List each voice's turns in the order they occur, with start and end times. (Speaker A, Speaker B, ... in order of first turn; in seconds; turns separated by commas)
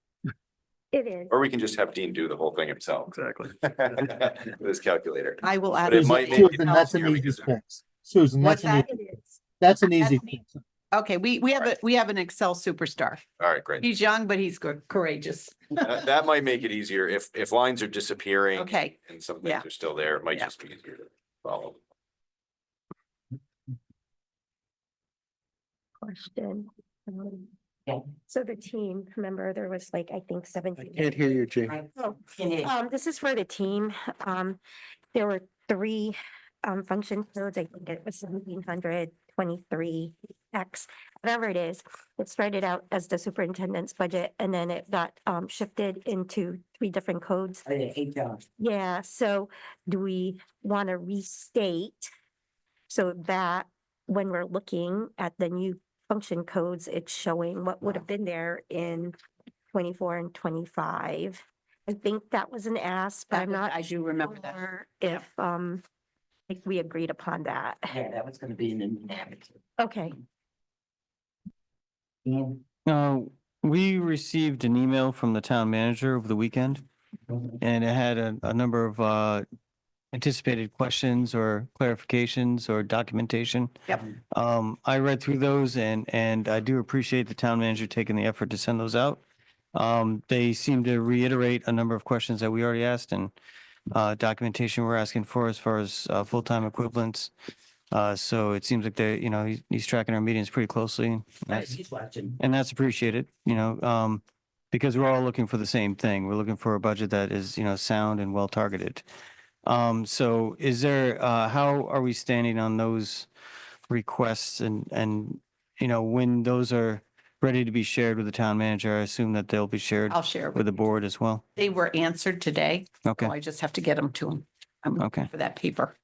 Speaker A: 0.9-1.4, Speaker B: 1.3-7.6, Speaker C: 5.4-7.2, Speaker D: 5.9-8.9, Speaker C: 8.4-10.4, Speaker D: 9.6-10.5, Speaker C: 10.9-13.2, Speaker B: 13.4-13.8, Speaker C: 13.8-15.9, Speaker B: 15.8-21.8, Speaker C: 18.6-19.6, Speaker A: 26.0-27.5, Speaker A: 28.2-31.3, Speaker D: 30.9-31.8, Speaker A: 31.9-34.6, Speaker A: 35.1-47.6, Speaker E: 47.8-48.4, Speaker A: 48.6-52.1, Speaker A: 52.9-59.1, Speaker A: 59.7-65.8, Speaker C: 63.3-64.6, Speaker A: 66.5-68.1, Speaker E: 68.1-69.0, Speaker A: 69.8-70.2, Speaker F: 72.8-76.9, Speaker F: 77.6-79.5, Speaker F: 80.1-83.8, Speaker F: 84.3-89.2, Speaker F: 89.7-93.3, Speaker F: 93.9-97.3, Speaker F: 97.9-101.8, Speaker E: 101.9-102.3, Speaker F: 102.4-109.0, Speaker F: 109.7-113.3, Speaker F: 113.9-121.4, Speaker C: 120.1-120.8, Speaker C: 121.6-126.0, Speaker F: 123.1-123.3, Speaker F: 125.0-125.3